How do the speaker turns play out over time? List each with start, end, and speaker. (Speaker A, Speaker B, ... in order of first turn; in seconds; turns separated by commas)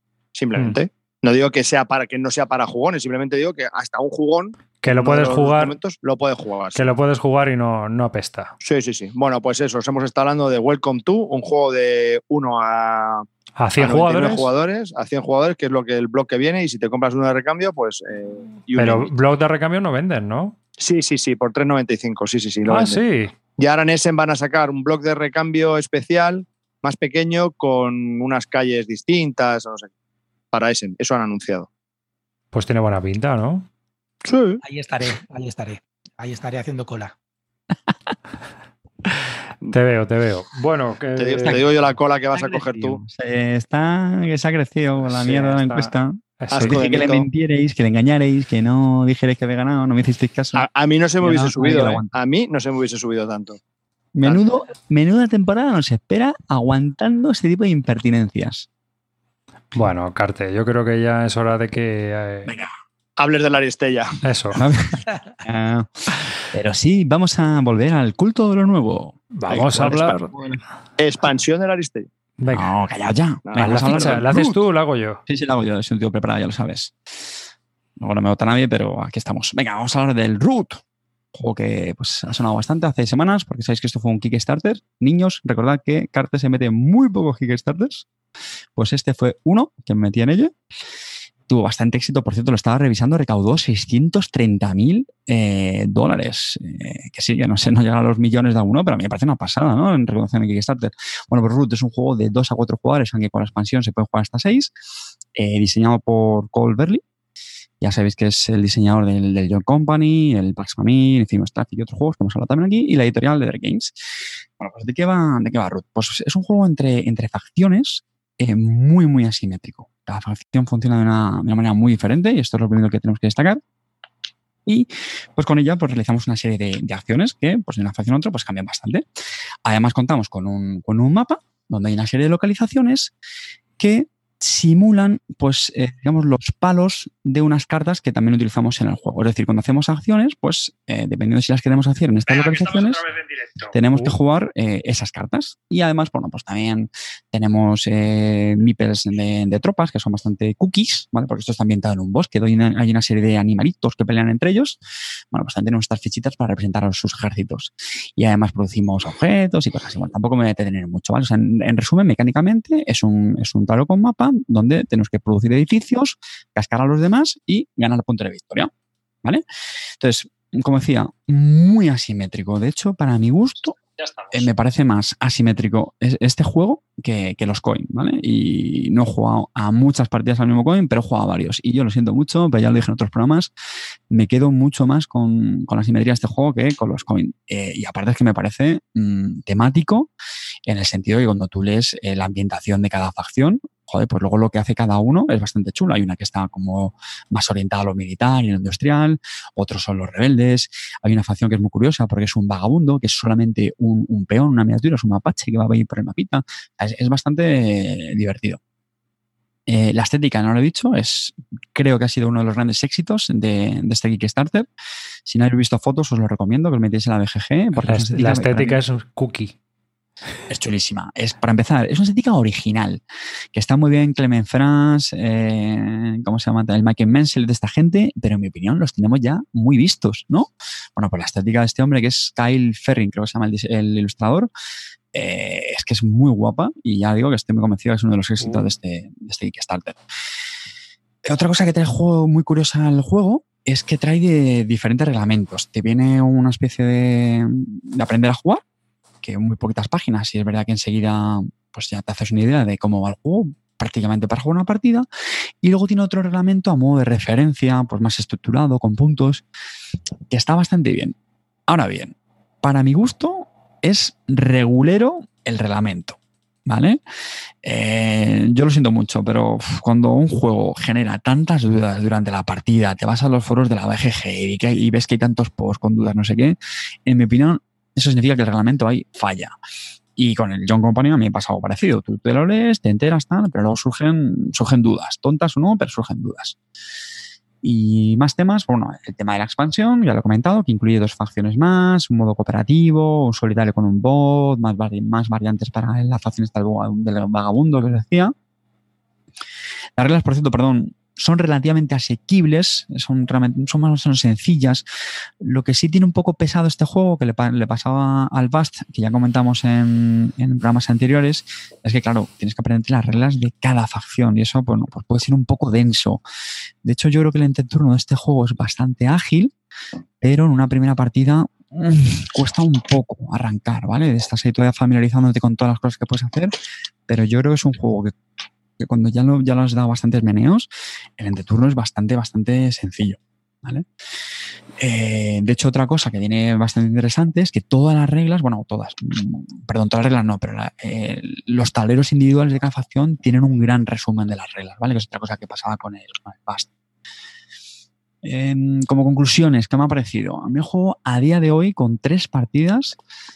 Speaker A: 0.3-6.9, Speaker B: 4.8-5.8, Speaker B: 6.8-8.5, Speaker A: 8.6-13.3, Speaker B: 13.6-14.5, Speaker A: 13.8-19.1, Speaker B: 18.8-20.6, Speaker A: 20.8-23.0, Speaker B: 22.7-23.3, Speaker A: 23.6-29.9, Speaker A: 30.5-31.7, Speaker B: 32.5-33.7, Speaker A: 34.2-34.6, Speaker C: 34.6-37.1, Speaker B: 39.7-41.6, Speaker A: 41.2-43.0, Speaker D: 42.3-50.7, Speaker B: 45.0-46.8, Speaker A: 46.5-47.3, Speaker A: 50.5-53.6, Speaker D: 51.2-52.1, Speaker D: 54.2-58.7, Speaker B: 59.7-62.5, Speaker D: 62.5-62.7, Speaker A: 63.2-64.2, Speaker B: 64.2-64.6, Speaker D: 64.5-65.9, Speaker D: 66.4-70.6, Speaker B: 69.3-70.3, Speaker A: 69.5-70.2, Speaker A: 71.0-72.1, Speaker B: 72.4-72.7, Speaker D: 72.5-74.6, Speaker A: 73.5-74.2, Speaker B: 73.6-75.2, Speaker D: 75.3-76.9, Speaker D: 78.0-80.8, Speaker D: 81.3-88.1, Speaker D: 88.8-90.5, Speaker D: 91.5-104.7, Speaker D: 105.3-107.0, Speaker D: 107.8-113.9, Speaker D: 114.6-123.6, Speaker D: 124.7-129.1, Speaker D: 129.7-133.1, Speaker D: 133.8-143.1, Speaker B: 143.6-144.1, Speaker D: 143.7-154.8, Speaker D: 155.3-168.7, Speaker D: 170.0-173.8, Speaker D: 174.3-183.5, Speaker D: 184.1-190.1, Speaker D: 190.7-208.6, Speaker D: 209.7-214.7, Speaker D: 215.3-218.8, Speaker B: 217.8-219.5, Speaker D: 220.5-223.0, Speaker D: 223.5-234.5, Speaker D: 235.1-240.0, Speaker B: 238.4-238.7, Speaker D: 241.2-248.6, Speaker D: 249.2-255.1, Speaker D: 255.6-259.4, Speaker D: 260.3-261.1, Speaker D: 261.7-267.0, Speaker D: 267.6-279.5, Speaker D: 280.2-286.6, Speaker D: 287.6-298.3, Speaker D: 300.0-304.9, Speaker D: 305.4-316.2, Speaker D: 316.8-319.5, Speaker D: 320.2-326.5, Speaker D: 327.1-328.1, Speaker D: 328.8-333.9, Speaker D: 334.8-346.7, Speaker D: 348.2-353.0